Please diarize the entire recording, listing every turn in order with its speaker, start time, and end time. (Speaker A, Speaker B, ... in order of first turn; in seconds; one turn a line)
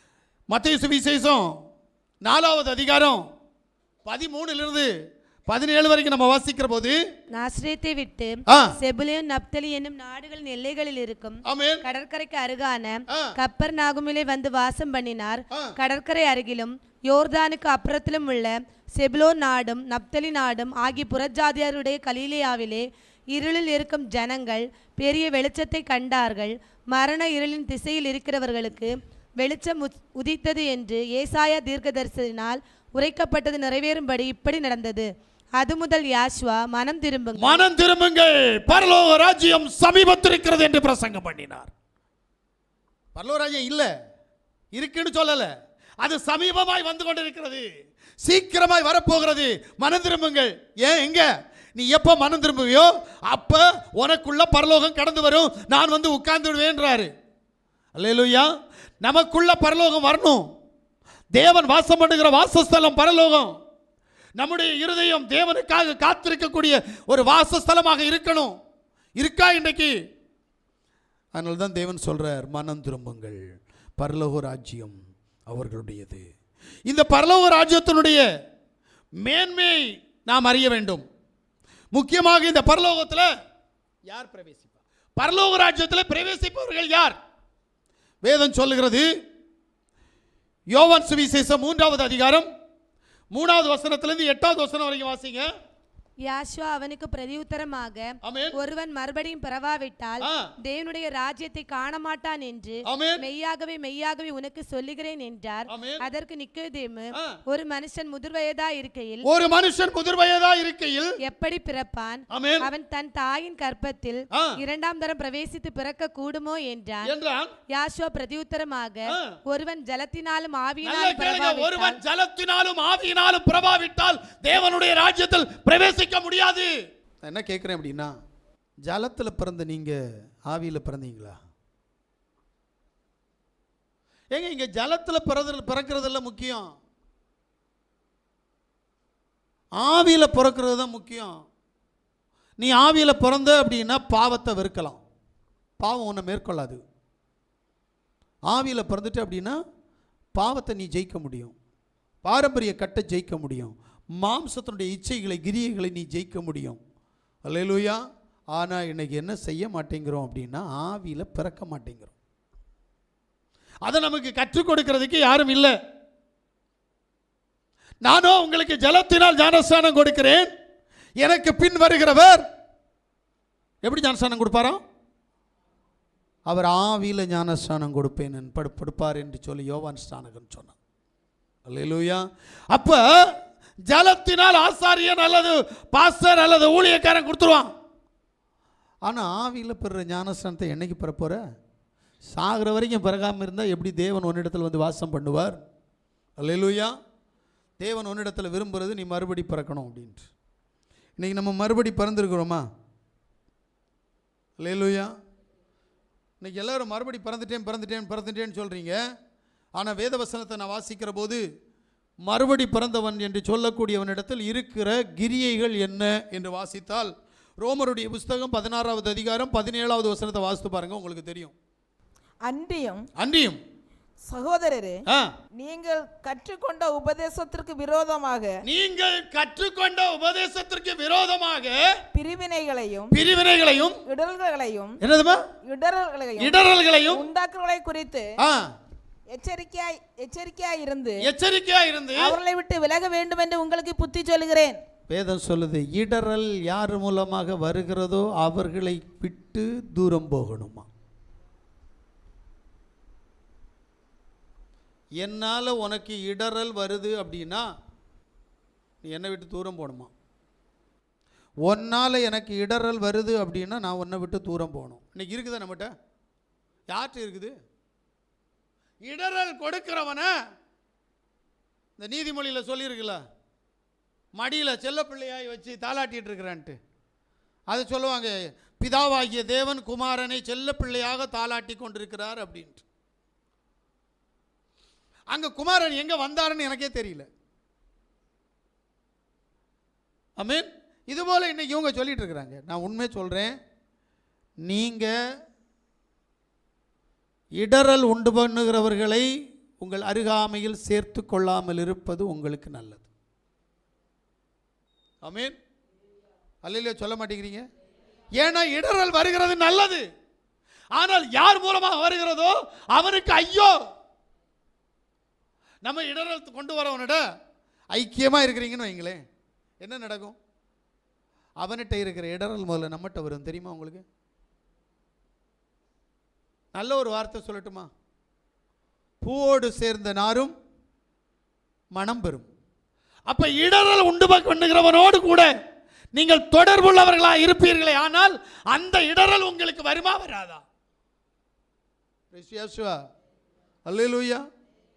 Speaker A: 0.5-1.5
Speaker A: 2.2-3.2
Speaker A: 4.0-4.9
Speaker A: 5.5-7.0
Speaker B: 7.3-35.1
Speaker A: 11.5-11.8
Speaker B: 35.6-37.6
Speaker A: 37.4-41.7
Speaker A: 43.1-43.9
Speaker A: 44.7-45.5
Speaker A: 46.0-47.7
Speaker A: 48.2-57.1
Speaker A: 57.9-58.5
Speaker A: 59.0-60.5
Speaker A: 61.3-63.5
Speaker A: 64.4-68.5
Speaker A: 69.2-69.9
Speaker A: 71.3-73.4
Speaker A: 74.0-75.0
Speaker A: 75.5-76.2
Speaker A: 76.9-78.2
Speaker A: 79.2-81.0
Speaker A: 81.9-83.3
Speaker A: 84.1-87.2
Speaker A: 88.2-89.0
Speaker A: 90.7-92.5
Speaker A: 93.3-95.5
Speaker B: 96.2-109.2
Speaker A: 98.2-98.5
Speaker A: 100.2-100.5
Speaker A: 102.9-103.2
Speaker A: 105.7-106.0
Speaker A: 109.2-111.1
Speaker B: 111.2-117.1
Speaker A: 112.3-112.7
Speaker A: 117.0-117.5
Speaker B: 117.7-122.0
Speaker A: 120.8-126.7
Speaker A: 127.2-128.1
Speaker A: 128.8-131.4
Speaker A: 134.3-136.7
Speaker A: 139.8-141.3
Speaker A: 142.6-145.0
Speaker A: 145.8-146.8
Speaker A: 148.5-149.6
Speaker A: 150.3-151.5
Speaker A: 152.2-156.8
Speaker A: 157.4-158.0
Speaker A: 158.5-162.1
Speaker A: 163.8-165.8
Speaker A: 168.0-170.5
Speaker A: 171.2-172.4
Speaker A: 173.8-174.8
Speaker A: 176.4-180.7
Speaker A: 181.7-183.3
Speaker A: 183.8-187.7
Speaker A: 189.0-191.4
Speaker A: 192.3-195.6
Speaker A: 196.4-196.9
Speaker A: 197.8-200.3
Speaker A: 201.2-202.6
Speaker A: 204.6-205.1
Speaker A: 206.4-209.0
Speaker A: 209.8-211.4
Speaker A: 212.2-221.5
Speaker C: 222.4-223.0
Speaker A: 223.1-223.6
Speaker C: 224.2-225.0
Speaker C: 225.6-228.6
Speaker A: 228.6-231.9
Speaker C: 232.1-233.2
Speaker A: 233.1-234.0
Speaker C: 234.1-235.0
Speaker A: 235.0-235.4
Speaker C: 235.6-238.3
Speaker A: 236.4-237.3
Speaker A: 238.4-238.7
Speaker C: 239.3-241.2
Speaker A: 241.2-242.4
Speaker C: 242.2-244.8
Speaker A: 245.1-250.8
Speaker A: 255.2-257.7
Speaker A: 259.0-260.1
Speaker A: 261.6-265.9
Speaker A: 266.9-267.5
Speaker A: 269.0-270.3
Speaker A: 272.0-273.2
Speaker A: 274.3-276.8
Speaker A: 277.7-282.8
Speaker A: 285.3-287.3
Speaker A: 290.4-293.5
Speaker A: 294.6-295.1
Speaker A: 297.6-299.3
Speaker A: 299.8-303.1
Speaker A: 305.2-305.5
Speaker A: 306.6-307.6
Speaker A: 308.3-310.0
Speaker A: 310.9-313.7
Speaker A: 315.8-317.2
Speaker A: 317.9-319.2
Speaker A: 319.8-320.4
Speaker A: 321.6-324.0
Speaker A: 326.7-327.9
Speaker A: 329.2-330.5
Speaker A: 331.9-332.5
Speaker A: 333.3-335.5
Speaker A: 336.1-340.6
Speaker A: 342.3-342.9
Speaker A: 343.9-344.4